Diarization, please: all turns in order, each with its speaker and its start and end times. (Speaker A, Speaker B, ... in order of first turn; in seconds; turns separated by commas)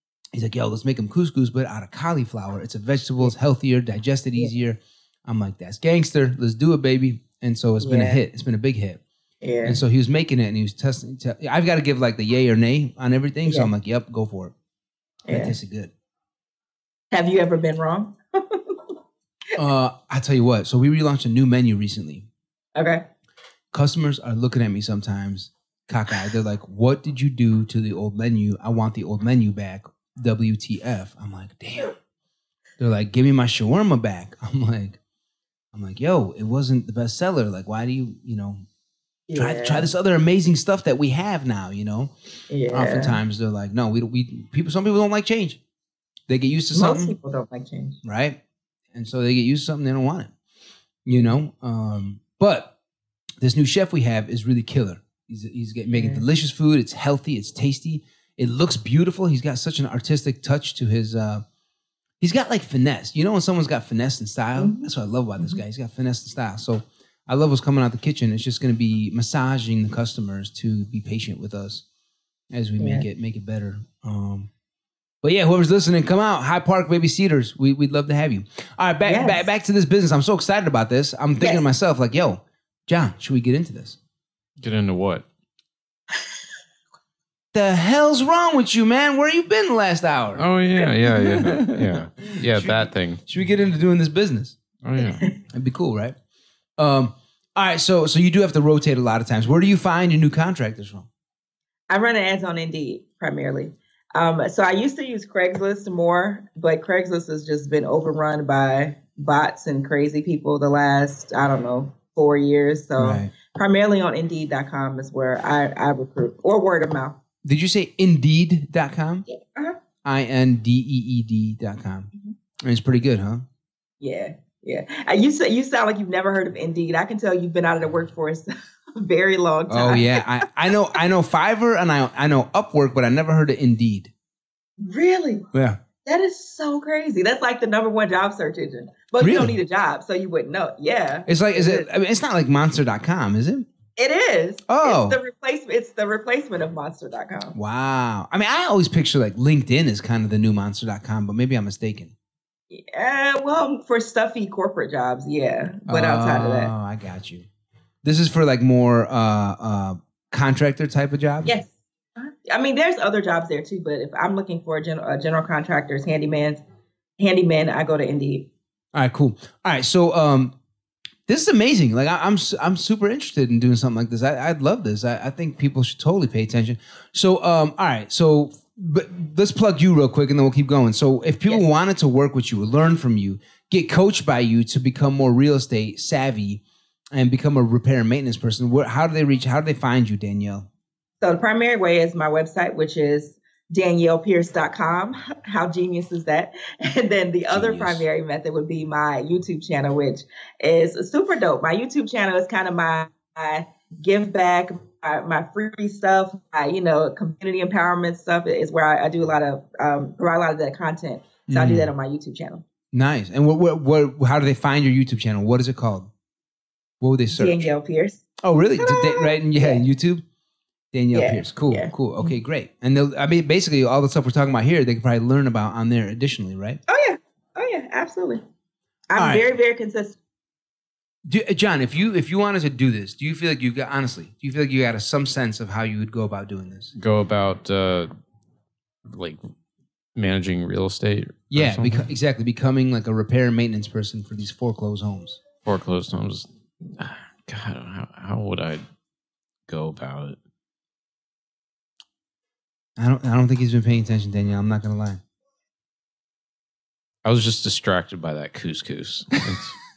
Speaker A: 0.3-9.0, Speaker B: 7.8-8.2, Speaker B: 9.4-9.8, Speaker A: 9.6-14.5, Speaker B: 13.5-13.7, Speaker B: 15.3-15.6, Speaker A: 15.3-15.9, Speaker B: 17.1-18.9, Speaker A: 19.6-22.3, Speaker B: 22.8-23.1, Speaker A: 23.7-31.9, Speaker A: 32.8-35.0, Speaker A: 35.7-38.6, Speaker B: 39.3-39.9, Speaker A: 39.4-42.1, Speaker B: 42.5-43.2, Speaker A: 42.7-45.6, Speaker A: 46.3-47.1, Speaker B: 46.7-48.0, Speaker A: 48.0-48.4, Speaker A: 48.9-50.3, Speaker A: 51.1-52.7, Speaker A: 53.4-61.4, Speaker B: 55.9-56.2, Speaker A: 62.2-71.8, Speaker B: 64.6-64.9, Speaker A: 72.5-74.5, Speaker B: 72.8-73.1, Speaker A: 75.2-84.0, Speaker B: 79.0-79.5, Speaker C: 84.6-85.3, Speaker A: 87.5-90.5, Speaker C: 90.4-93.2, Speaker A: 91.1-94.6, Speaker C: 94.8-95.3, Speaker B: 95.0-95.4, Speaker A: 95.5-96.2, Speaker A: 96.8-101.1, Speaker B: 101.9-117.2, Speaker A: 113.0-113.3, Speaker A: 117.4-119.3, Speaker B: 119.3-119.8, Speaker A: 120.0-122.1, Speaker A: 122.6-123.5, Speaker B: 124.0-130.4, Speaker A: 129.7-134.1, Speaker B: 134.8-135.5, Speaker A: 135.5-135.8, Speaker B: 136.0-141.9, Speaker A: 139.2-139.6, Speaker A: 141.3-143.7, Speaker B: 144.0-147.6, Speaker A: 144.7-145.2, Speaker A: 147.6-152.1, Speaker B: 152.7-156.7, Speaker A: 155.9-157.5, Speaker A: 158.0-161.6, Speaker B: 161.4-166.6, Speaker B: 167.2-168.5, Speaker A: 168.9-170.6, Speaker A: 171.3-186.6, Speaker A: 187.1-190.7, Speaker B: 191.2-212.6, Speaker C: 197.5-198.0, Speaker A: 211.5-211.9, Speaker A: 212.9-216.1, Speaker A: 217.0-217.7, Speaker B: 217.3-218.2, Speaker A: 218.4-220.2, Speaker B: 218.8-219.8, Speaker A: 220.9-226.8, Speaker B: 221.1-222.3, Speaker B: 226.9-228.4, Speaker B: 229.1-230.2, Speaker A: 229.2-229.4, Speaker A: 231.3-236.9, Speaker C: 237.0-238.1, Speaker C: 239.1-239.4, Speaker C: 240.2-242.1, Speaker A: 241.5-245.4, Speaker C: 245.7-248.8, Speaker C: 249.7-250.4, Speaker A: 253.0-255.2, Speaker C: 257.2-259.8